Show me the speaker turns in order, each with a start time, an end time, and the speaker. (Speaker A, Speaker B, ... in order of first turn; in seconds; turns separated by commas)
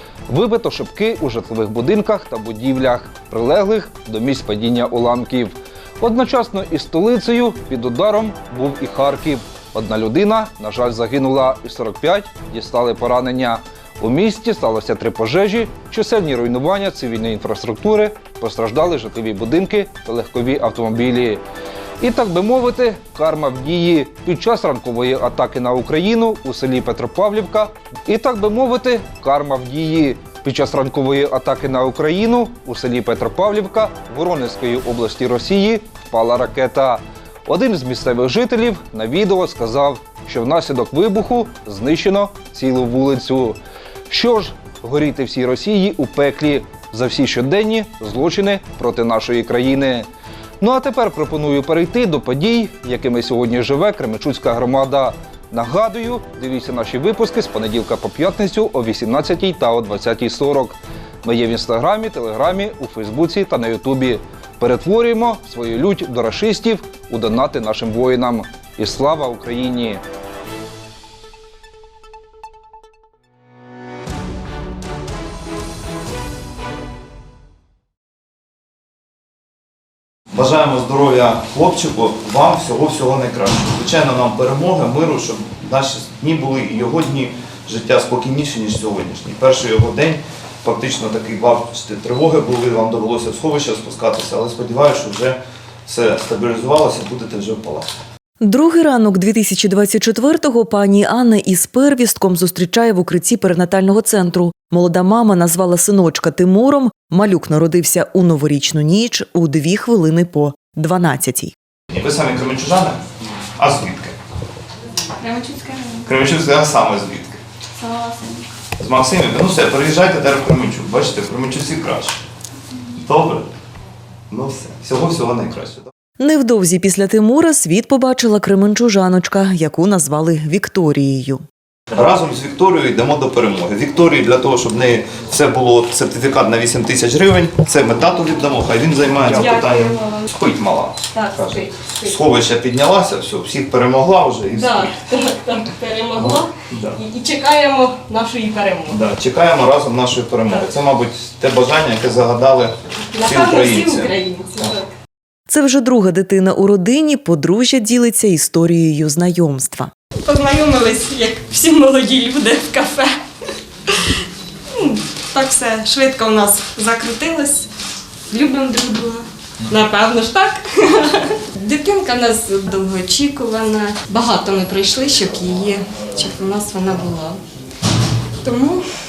Speaker A: 0.3-21.4, Speaker A: 22.0-50.1, Speaker A: 50.6-70.0, Speaker B: 80.3-97.9, Speaker C: 98.4-111.5, Speaker B: 111.9-113.0, Speaker B: 113.6-114.2, Speaker D: 115.2-116.1, Speaker B: 116.1-117.4, Speaker D: 117.8-118.4, Speaker B: 118.8-122.2, Speaker B: 123.0-123.5, Speaker B: 124.3-125.9, Speaker C: 126.2-131.4, Speaker B: 132.0-144.9, Speaker D: 139.1-140.3, Speaker D: 141.1-142.2, Speaker D: 144.5-149.0, Speaker B: 146.2-147.0, Speaker B: 148.9-152.7, Speaker D: 150.5-150.8, Speaker D: 153.2-154.9, Speaker B: 153.3-154.1, Speaker C: 155.5-159.9, Speaker D: 160.2-163.2, Speaker D: 164.8-167.7, Speaker D: 168.3-177.4, Speaker D: 178.4-178.9